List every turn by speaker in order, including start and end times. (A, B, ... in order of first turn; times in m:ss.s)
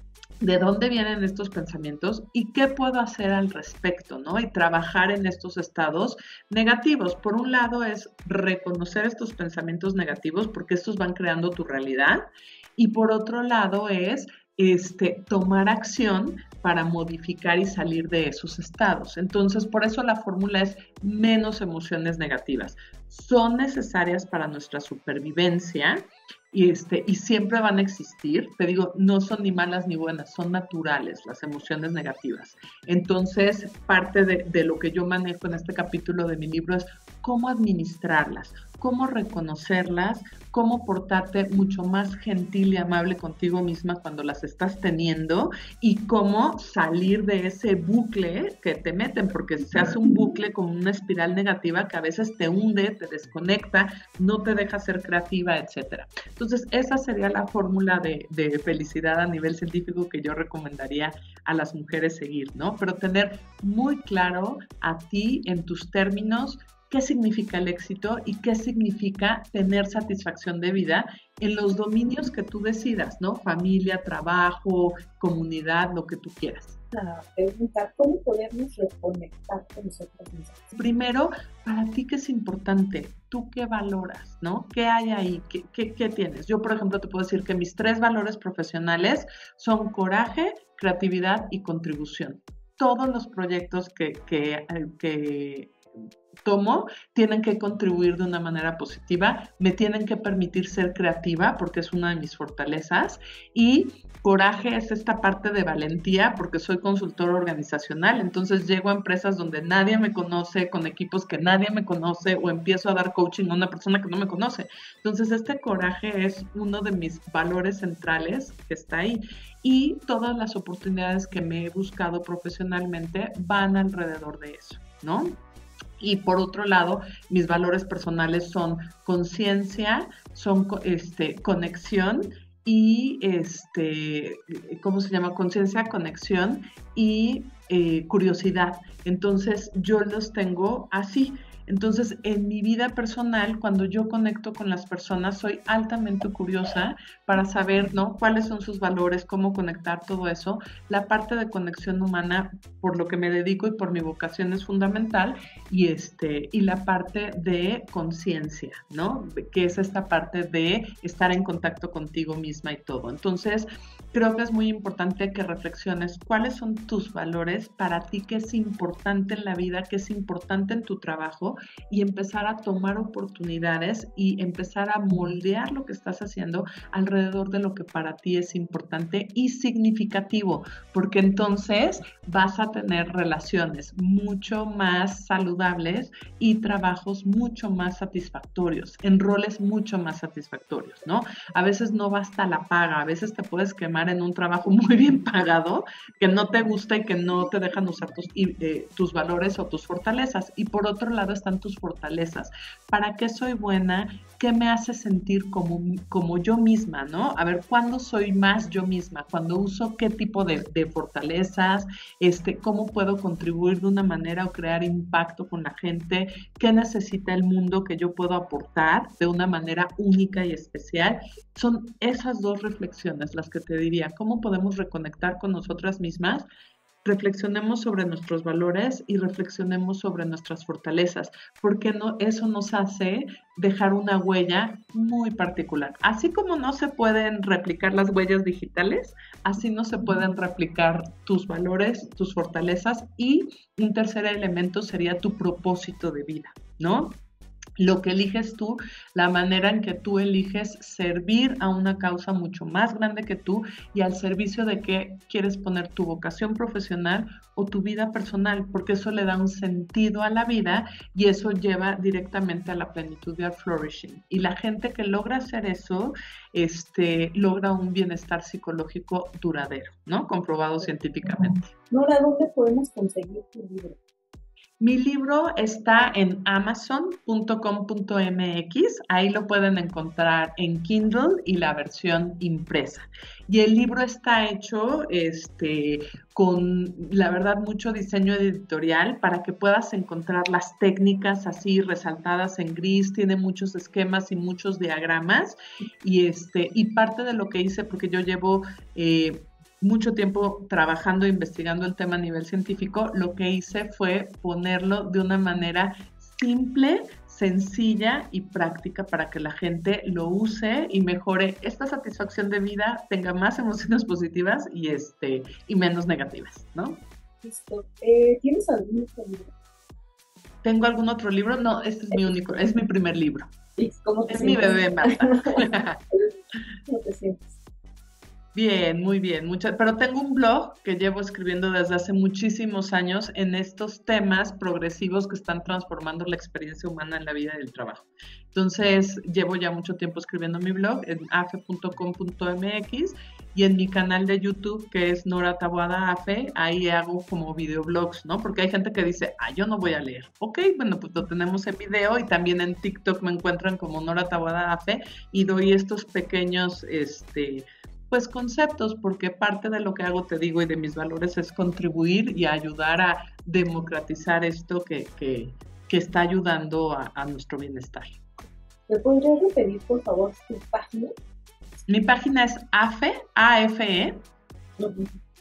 0:00.4-0:12.2 A
0:12.8-1:16.8 A
1:16.9-1:20.6 B
1:20.7-1:35.8 A
1:36.4-2:05.4 A
2:06.0-3:46.4 A
3:47.0-4:07.2 A
4:07.8-4:31.7 A
4:31.2-4:34.0 B
4:34.8-5:17.0 A
5:17.4-5:19.5 B
5:20.6-5:23.5 A
5:23.8-5:25.4 B
5:24.3-5:26.0 A
5:26.9-5:27.6 B
5:28.5-6:08.2 A
6:08.9-6:11.1 B
6:11.9-6:14.2 A
6:14.8-6:15.2 B